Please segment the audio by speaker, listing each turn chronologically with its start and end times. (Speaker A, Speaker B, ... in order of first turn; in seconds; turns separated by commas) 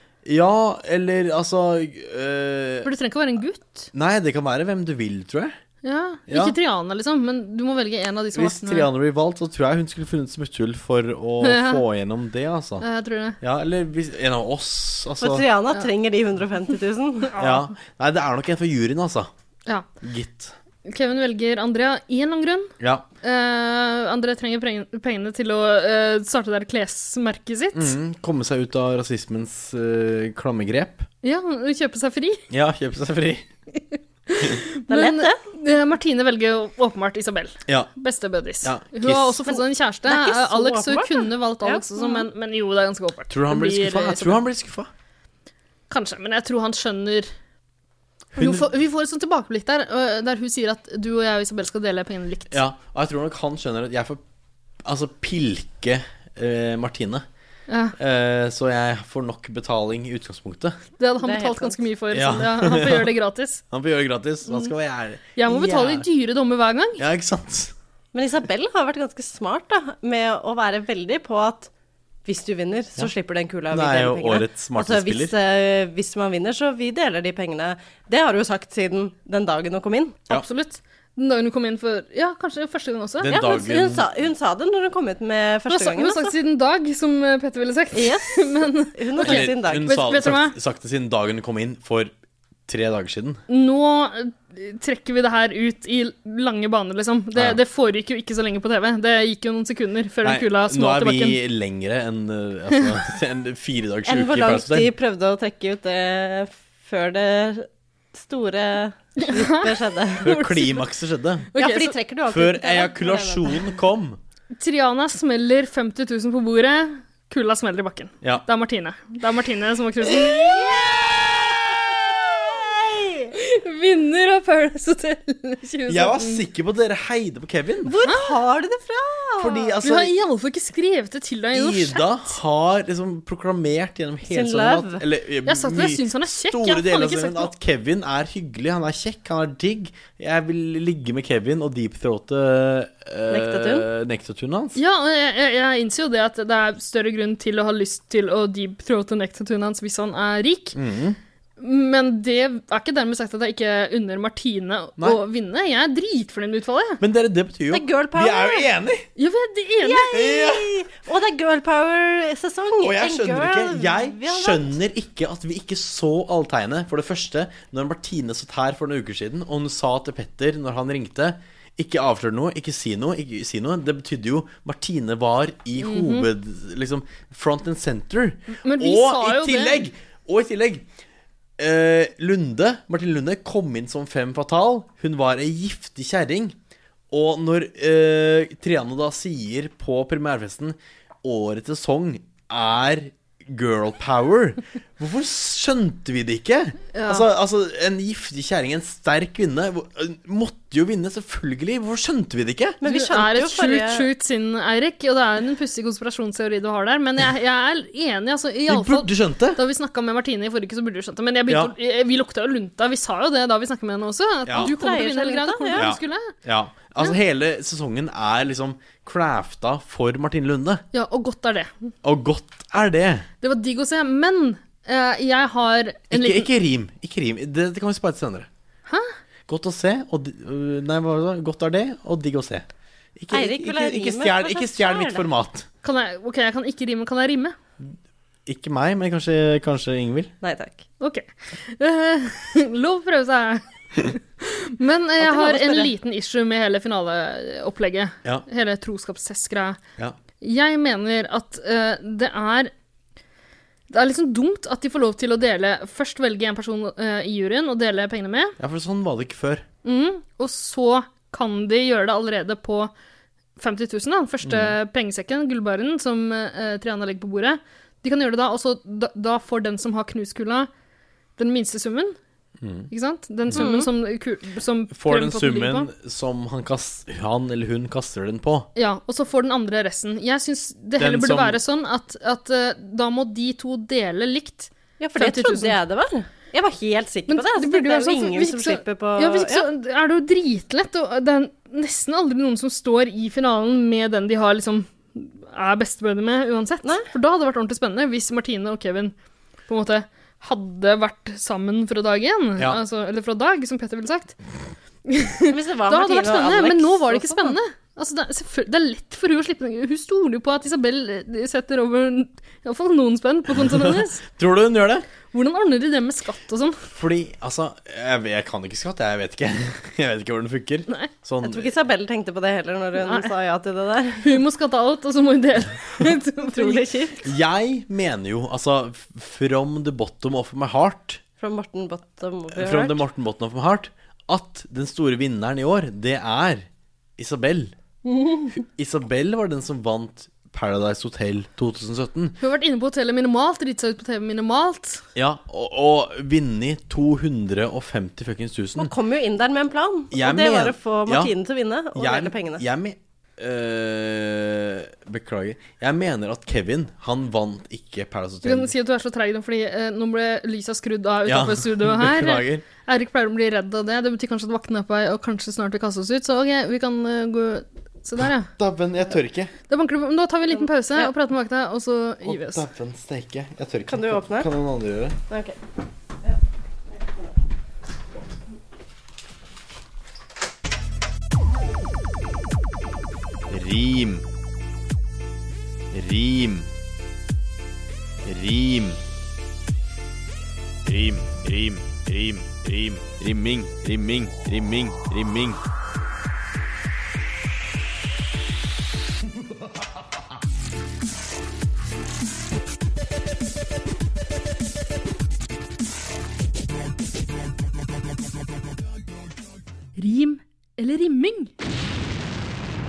Speaker A: 0.2-2.9, Speaker B: 2.8-3.9, Speaker A: 3.9-5.5, Speaker B: 5.8-8.9, Speaker A: 6.3-6.5, Speaker A: 8.3-12.8, Speaker B: 11.4-11.8, Speaker B: 12.8-13.4, Speaker A: 13.4-15.4, Speaker C: 15.2-17.3, Speaker B: 17.3-17.7, Speaker A: 17.4-19.3, Speaker A: 20.0-20.5, Speaker B: 20.8-27.9, Speaker A: 22.8-23.1, Speaker A: 27.7-31.1, Speaker B: 31.2-32.4, Speaker A: 32.5-33.5, Speaker B: 33.9-44.4, Speaker C: 34.9-35.4, Speaker A: 38.6-39.6, Speaker C: 40.0-42.3, Speaker A: 43.3-44.9, Speaker B: 45.9-47.3, Speaker A: 48.4-48.6, Speaker B: 48.4-52.6, Speaker A: 52.5-54.2, Speaker A: 54.8-57.2, Speaker B: 57.7-57.9, Speaker A: 58.0-60.8, Speaker B: 61.0-63.6, Speaker C: 61.2-61.8, Speaker A: 62.1-63.1, Speaker A: 63.7-66.1, Speaker B: 64.5-64.7, Speaker B: 65.3-67.0, Speaker A: 67.0-67.7, Speaker C: 68.1-71.7, Speaker C: 72.2-80.2, Speaker A: 73.7-75.3, Speaker B: 80.3-83.4, Speaker A: 83.2-84.1, Speaker C: 83.3-86.3, Speaker B: 85.7-90.6, Speaker C: 87.9-90.0, Speaker A: 89.2-92.1, Speaker A: 92.7-93.4, Speaker B: 93.5-101.4, Speaker A: 100.2-104.9, Speaker C: 104.0-110.3, Speaker B: 109.2-110.8, Speaker A: 110.2-111.5, Speaker B: 111.5-111.9, Speaker C: 111.5-113.7, Speaker A: 112.3-114.2, Speaker B: 114.6-120.9, Speaker A: 120.6-121.0, Speaker C: 122.5-123.3, Speaker B: 123.3-126.4, Speaker A: 125.9-128.0, Speaker C: 127.8-129.7, Speaker B: 128.0-128.4, Speaker A: 129.4-130.1, Speaker B: 129.8-132.4, Speaker A: 131.5-144.8, Speaker C: 134.3-135.0, Speaker B: 135.4-137.5, Speaker C: 143.3-143.9, Speaker B: 144.8-150.8, Speaker A: 150.7-151.2, Speaker B: 151.6-157.0, Speaker A: 157.0-159.1, Speaker C: 157.7-158.7, Speaker B: 159.2-160.3, Speaker C: 159.8-164.7, Speaker A: 160.1-160.8, Speaker A: 162.8-180.9, Speaker B: 175.8-176.3, Speaker B: 178.6-179.8, Speaker A: 181.6-186.6, Speaker A: 187.1-202.8, Speaker B: 196.9-197.3, Speaker C: 202.8-204.1, Speaker B: 202.8-216.3, Speaker A: 208.7-209.6, Speaker A: 211.5-211.7, Speaker A: 214.4-214.7, Speaker C: 214.5-215.9, Speaker A: 215.7-220.8, Speaker B: 220.9-221.9, Speaker A: 222.0-223.3, Speaker B: 223.4-226.5, Speaker A: 226.1-228.5, Speaker A: 229.5-235.7, Speaker C: 233.3-235.2, Speaker B: 235.8-237.6, Speaker A: 238.4-240.3, Speaker C: 240.4-240.8, Speaker B: 241.0-249.8, Speaker C: 245.2-245.9, Speaker B: 250.4-252.7, Speaker B: 253.9-258.6, Speaker A: 258.6-259.6, Speaker B: 259.8-262.9, Speaker B: 263.6-270.7, Speaker A: 264.4-264.8, Speaker B: 271.4-272.2, Speaker A: 272.6-272.9, Speaker B: 272.9-275.9, Speaker C: 273.5-273.9, Speaker A: 274.9-278.7, Speaker B: 278.8-285.8, Speaker A: 281.0-281.6, Speaker C: 285.0-289.7, Speaker B: 287.3-299.1, Speaker B: 299.7-304.4, Speaker B: 305.1-314.2, Speaker C: 305.5-307.6, Speaker A: 313.6-315.1, Speaker B: 315.3-316.8, Speaker A: 316.9-321.7, Speaker C: 321.4-324.4, Speaker B: 323.0-323.3, Speaker B: 324.2-326.9, Speaker C: 326.4-327.2, Speaker A: 327.2-331.2, Speaker C: 331.4-333.0, Speaker A: 332.5-337.7, Speaker B: 338.0-338.5, Speaker A: 338.5-342.4, Speaker B: 342.4-345.0, Speaker A: 345.1-348.9, Speaker C: 348.8-352.6, Speaker A: 350.1-351.3, Speaker A: 351.9-358.7, Speaker B: 358.4-368.5, Speaker A: 361.2-362.6, Speaker A: 368.2-369.5, Speaker B: 369.7-372.6, Speaker A: 372.2-375.2, Speaker C: 373.9-374.5, Speaker C: 375.3-375.6, Speaker A: 383.5-384.2, Speaker A: 385.9-386.7, Speaker A: 388.2-389.0, Speaker A: 390.8-395.6, Speaker B: 410.0-411.5